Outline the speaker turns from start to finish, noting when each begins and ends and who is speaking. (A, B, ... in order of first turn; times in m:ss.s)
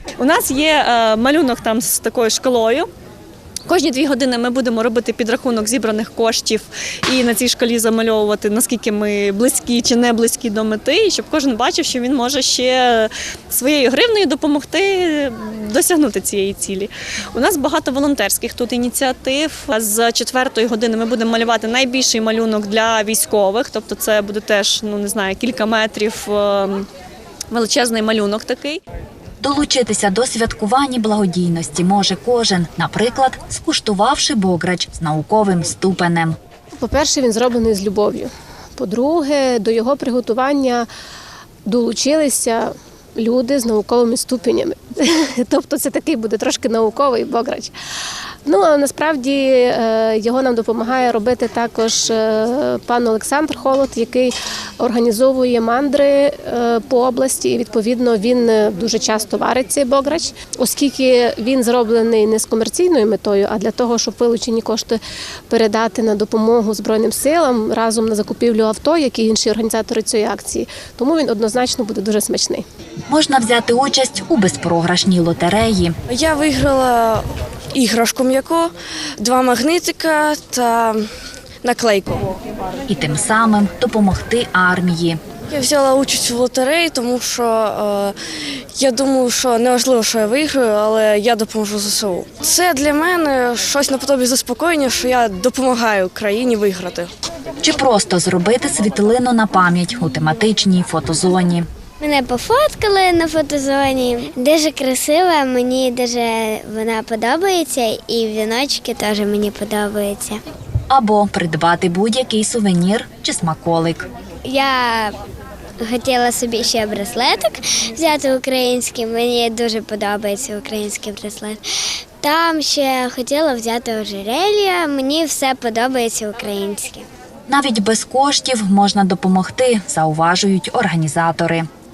0:00.2-0:02.9 A
0:03.7-0:26.9 A
0:27.5-0:28.8 A
0:29.4-0:36.4 B
0:36.8-0:40.9 C
0:41.6-0:47.7 C
0:48.4-1:05.0 C
1:05.5-1:12.6 C
1:13.1-1:15.9 B
1:16.1-1:21.1 D
1:21.6-1:22.3 D
1:22.9-1:25.2 B
1:25.5-1:28.2 D
1:28.7-1:37.1 D
1:37.6-1:41.7 B
1:42.0-1:50.4 E
1:50.9-1:54.1 B
1:54.4-1:55.2 E
1:55.8-2:01.6 E
2:02.2-2:07.0 E
2:07.5-2:11.7 B